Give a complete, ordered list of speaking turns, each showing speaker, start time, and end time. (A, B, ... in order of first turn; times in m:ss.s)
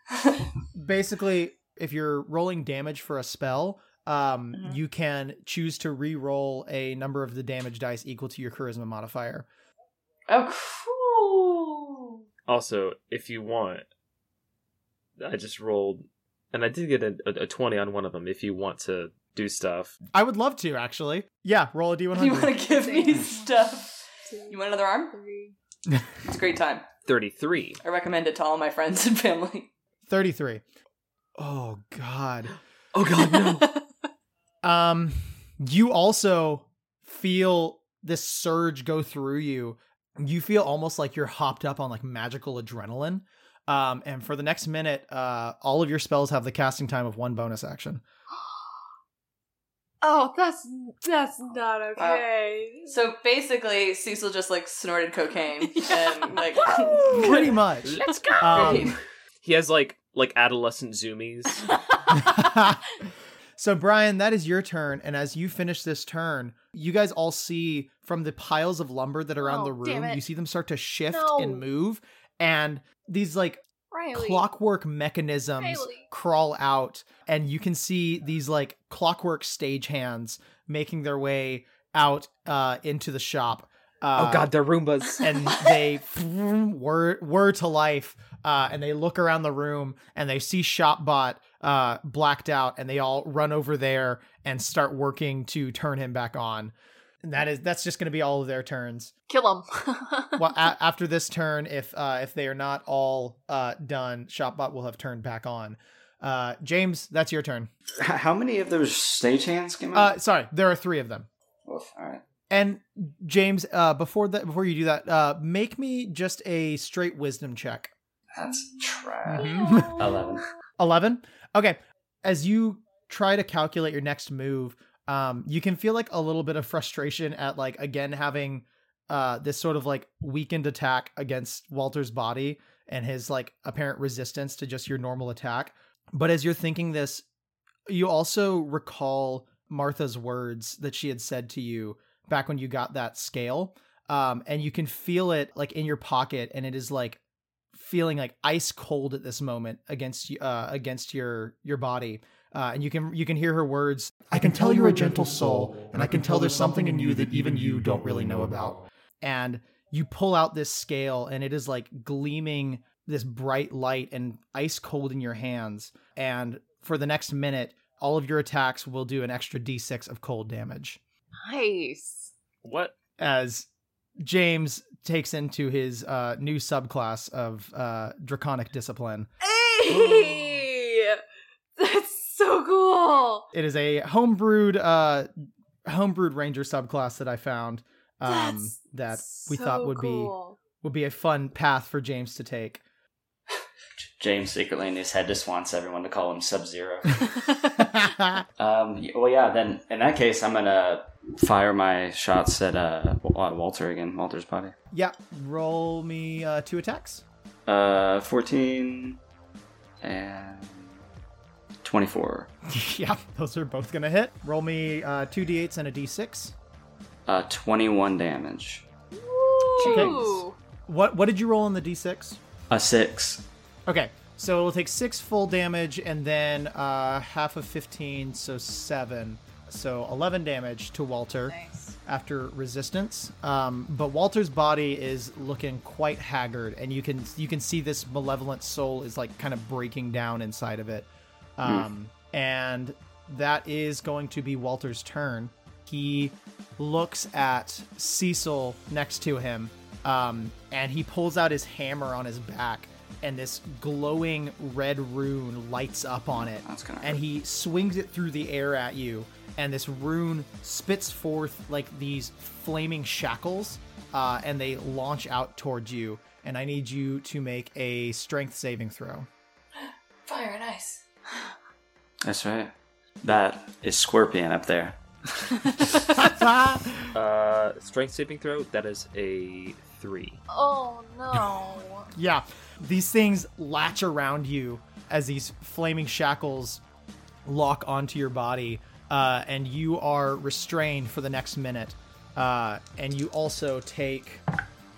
0:00.1-0:00.5 A
0:00.8-0:09.5 B
0:10.3-0:12.2 A
0:12.5-0:13.8 C
0:15.2-0:20.0 C
0:20.1-0:22.6 B
0:22.2-0:23.9 A
0:22.8-0:23.5 D
0:24.3-0:25.6 D
0:24.5-0:25.1 A
0:26.2-0:26.9 A
0:27.1-0:27.8 C
0:27.8-0:29.7 A
0:30.1-0:30.6 B
0:31.4-0:32.5 B
0:32.9-0:33.7 C
0:34.6-0:48.0 B
0:50.0-0:53.0 D
0:52.0-0:52.2 A
0:52.9-0:57.6 A
0:55.7-0:58.9 D
0:57.0-0:59.0 B
0:57.8-1:01.7 C
0:58.6-0:58.9 A
1:02.1-1:03.0 B
1:03.6-1:24.5 B
1:09.4-1:10.2 D
1:11.1-1:11.6 D
1:13.9-1:14.4 D
1:15.6-1:16.1 D
1:24.2-1:25.4 C
1:25.2-1:39.1 B
1:39.3-1:40.6 D
1:40.4-1:47.7 B
1:48.0-1:50.1 E
1:49.9-1:51.3 B
1:51.7-1:52.2 E
1:52.5-1:57.9 B
1:58.3-2:00.5 E
1:59.3-2:00.0 B
2:00.8-2:17.2 B
2:17.9-2:27.2 B
2:27.7-2:51.0 B
2:51.4-2:52.3 D
2:52.6-2:52.9 C
2:53.2-2:53.7 B
2:54.2-2:59.3 B
2:59.4-3:01.2 D
3:01.8-3:03.5 D
3:03.5-3:05.3 B
3:05.9-3:12.8 B
3:08.3-3:10.6 D
3:14.2-3:17.3 E
3:17.8-3:18.4 B
3:18.6-3:24.8 E
3:24.9-3:27.2 B
3:27.7-3:29.2 E
3:30.0-3:31.0 E
3:31.8-3:32.5 E
3:32.7-3:36.6 B
3:37.3-3:38.8 E
3:39.2-3:40.6 D
3:39.8-3:42.4 B
3:42.7-3:43.5 E
3:43.9-4:29.3 B
3:51.5-3:52.0 D
4:16.5-4:17.2 E
4:30.3-4:31.0 A
4:32.2-4:32.7 E
4:33.2-4:36.1 E
4:36.1-4:37.2 B
4:37.1-4:40.4 C
4:40.5-4:42.1 D
4:42.1-4:46.8 B
4:47.5-4:54.4 B